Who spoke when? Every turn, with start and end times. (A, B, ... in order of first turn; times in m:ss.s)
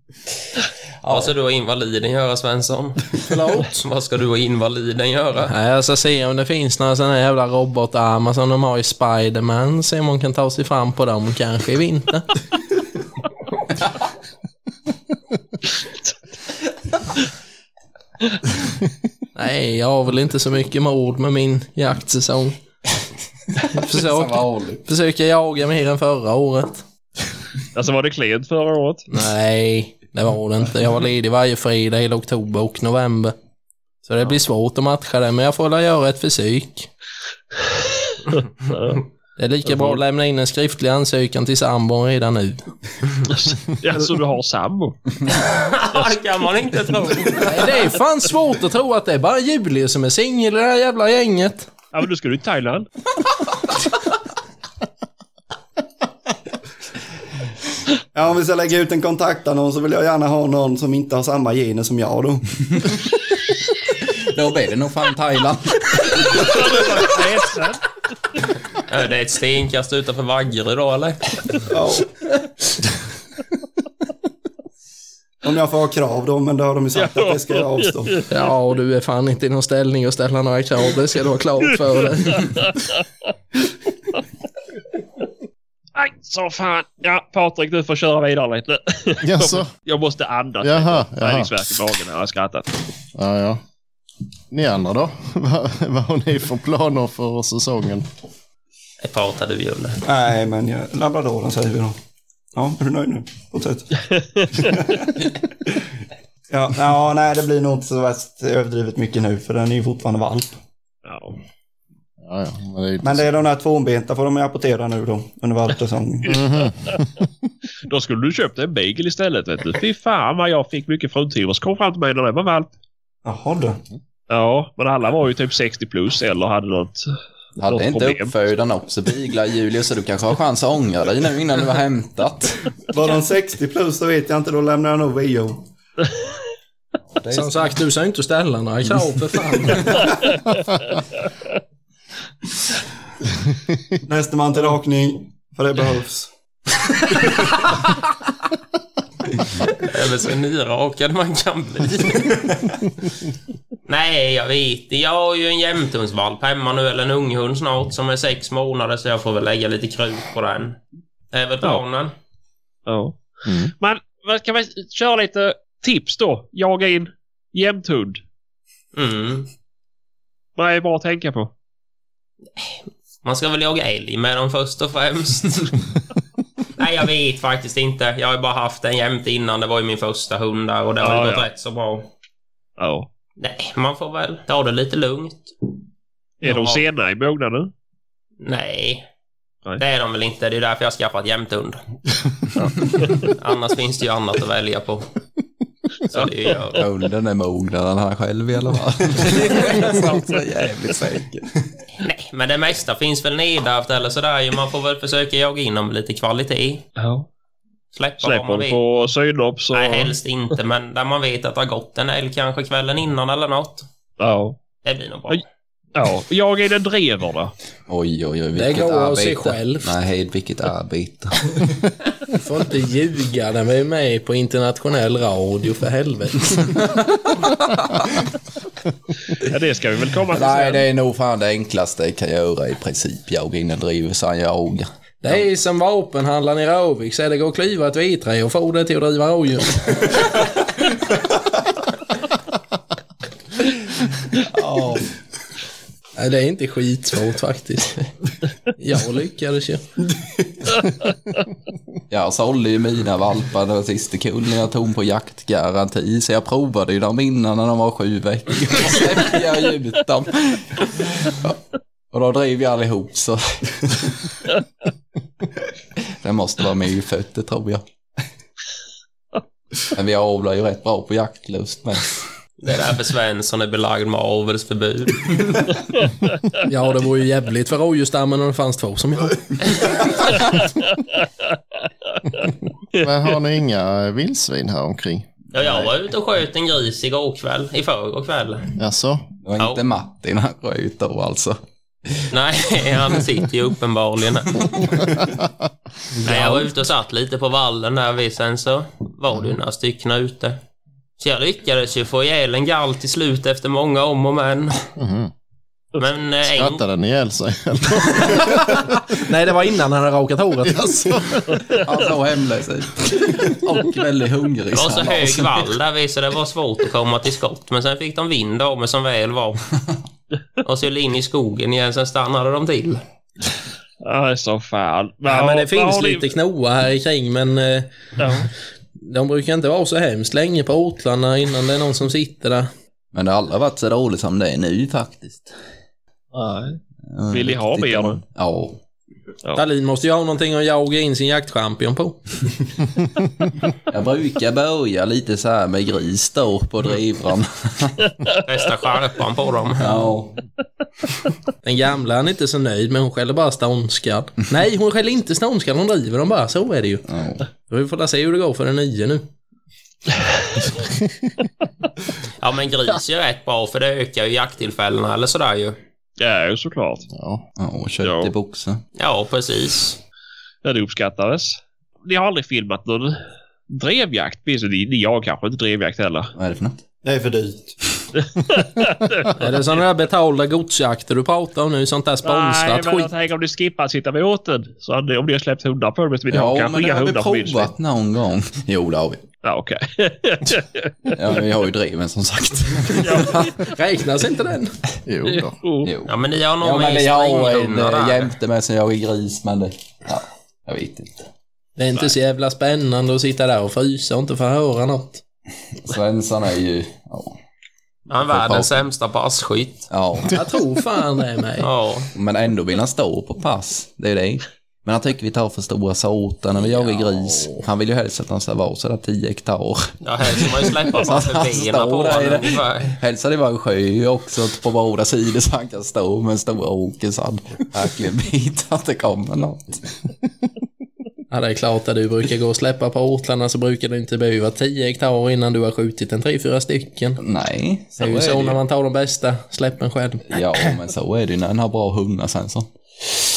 0:01.0-0:01.3 A
0:01.1-0:05.5 B
0:03.3-0:03.8 C
0:05.5-0:12.3 C
0:19.4-0:22.6 C
0:23.5-0:24.8 A
0:23.7-0:26.8 C
0:27.7-0:29.1 D
0:29.1-0:33.4 C
0:34.0-0:36.9 C
0:38.6-0:39.0 D
0:39.4-0:42.7 C
0:39.7-0:40.0 D
0:43.3-0:45.0 D
0:45.3-0:47.9 B
0:47.4-0:51.7 C
0:51.9-0:52.9 D
0:58.1-1:02.9 E
1:04.0-1:07.2 A
1:06.2-1:07.8 D
1:08.9-1:11.4 B
1:11.7-1:12.2 E
1:15.4-1:18.2 E
1:17.0-1:18.2 D
1:18.3-1:22.6 C
1:22.3-1:23.0 D
1:26.0-1:32.7 D
1:29.2-1:29.7 F
1:30.6-1:31.5 F
1:33.2-1:33.6 F
1:34.5-1:38.1 F
1:39.0-1:40.0 B
1:40.1-1:42.0 E
1:42.5-1:44.0 E
1:44.2-1:44.6 D
1:44.5-1:45.2 E
1:46.5-1:50.5 E
1:51.0-1:51.4 D
1:52.2-1:53.3 F
1:53.0-1:56.6 E
1:56.3-1:57.3 F
1:56.3-1:57.0 D
1:57.8-2:02.7 D
2:03.2-2:03.8 E
2:04.3-2:07.1 D
2:07.6-2:12.7 A
2:07.7-2:08.3 D
2:12.9-2:15.7 E
2:17.1-2:17.6 A
2:17.3-2:20.1 C
2:19.7-2:20.0 A
2:24.0-2:26.3 E
2:27.1-2:27.7 E
2:29.7-2:32.5 B
2:33.9-2:40.8 B
2:41.3-2:42.1 B
2:42.9-2:43.2 D
2:43.5-2:43.7 F
2:43.7-2:48.2 D
2:48.9-2:49.5 B
2:50.6-2:51.5 D
2:52.6-2:55.8 B
2:56.8-3:02.1 B
3:01.0-3:01.5 D
3:02.8-3:03.1 D
3:03.4-3:05.5 B
3:06.4-3:07.7 D
3:06.5-3:06.8 B
3:08.4-3:09.0 B
3:09.8-3:11.8 B
3:12.6-3:13.1 D
3:13.2-3:15.1 B
3:16.1-3:16.9 B
3:16.8-3:21.6 A
3:19.9-3:20.2 D
3:22.0-3:26.8 B
3:27.0-3:27.3 D
3:27.9-3:28.8 B
3:28.2-3:30.2 D
3:29.7-3:33.9 B
3:34.2-3:34.6 D
3:34.8-3:35.4 B
3:36.0-3:37.5 D
3:37.9-3:41.7 A
3:38.5-3:40.0 C
3:42.3-3:46.8 C
3:46.7-3:48.2 A
3:49.4-3:50.8 D
3:50.3-3:55.4 A
3:55.2-4:00.2 C
4:04.4-4:05.1 A
4:06.2-4:08.0 C
4:08.8-4:09.8 C
4:12.1-4:21.6 A
4:22.1-4:24.2 A
4:26.0-4:27.8 A
4:29.9-4:32.2 A
4:32.6-4:35.6 B
4:36.6-4:39.9 C
4:40.4-4:41.5 D
4:42.1-4:43.2 D
4:43.0-4:45.3 F
4:45.5-4:48.7 B
4:48.8-4:49.3 F
4:49.4-4:51.6 A
4:49.6-4:49.8 B
4:52.3-4:54.8 B
4:54.6-4:55.2 A
4:55.0-4:55.5 F
4:56.2-5:00.6 B
5:01.2-5:04.8 B
5:05.0-5:05.3 F
5:06.0-5:06.8 B
5:06.5-5:09.0 F
5:09.2-5:11.1 C
5:10.6-5:11.6 F
5:11.7-5:15.7 A
5:14.7-5:19.6 B
5:20.6-5:23.0 B
5:24.0-5:26.3 D
5:25.3-5:28.3 C
5:28.2-5:28.5 D
5:29.0-5:32.7 C
5:33.1-5:35.6 A
5:36.3-5:38.2 D
5:37.1-5:38.8 A
5:39.6-5:42.2 C
5:43.9-5:48.1 A
5:48.5-5:50.1 B
5:49.8-5:50.4 A
5:51.6-5:57.1 C
5:57.1-5:57.5 A
5:57.6-5:59.2 C
6:02.4-6:05.8 B
6:06.2-6:07.1 D
6:07.1-6:07.4 F
6:07.6-6:08.8 A
6:08.0-6:08.3 D
6:09.0-6:10.0 B
6:10.6-6:16.3 D
6:16.4-6:16.8 A
6:17.0-6:17.8 E
6:18.2-6:19.4 D
6:19.4-6:23.1 C
6:22.2-6:27.7 D
6:26.3-6:29.2 A
6:29.4-6:31.4 D
6:31.1-6:33.5 A
6:33.0-6:33.4 D
6:33.3-6:34.8 C
6:35.1-6:35.6 F
6:35.3-6:35.9 D
6:35.8-6:41.3 A
6:36.0-6:38.3 B
6:41.8-6:45.2 C
6:45.7-6:47.4 A
6:48.1-6:49.9 B
6:48.2-6:48.8 A
6:49.9-6:50.4 A
6:50.3-6:51.7 C
6:51.6-6:52.1 B
6:52.1-7:09.8 A
6:57.1-6:57.5 C
7:00.0-7:02.9 B
7:11.3-7:17.2 C
7:17.2-7:18.6 A
7:18.0-7:20.7 C
7:20.3-7:23.2 A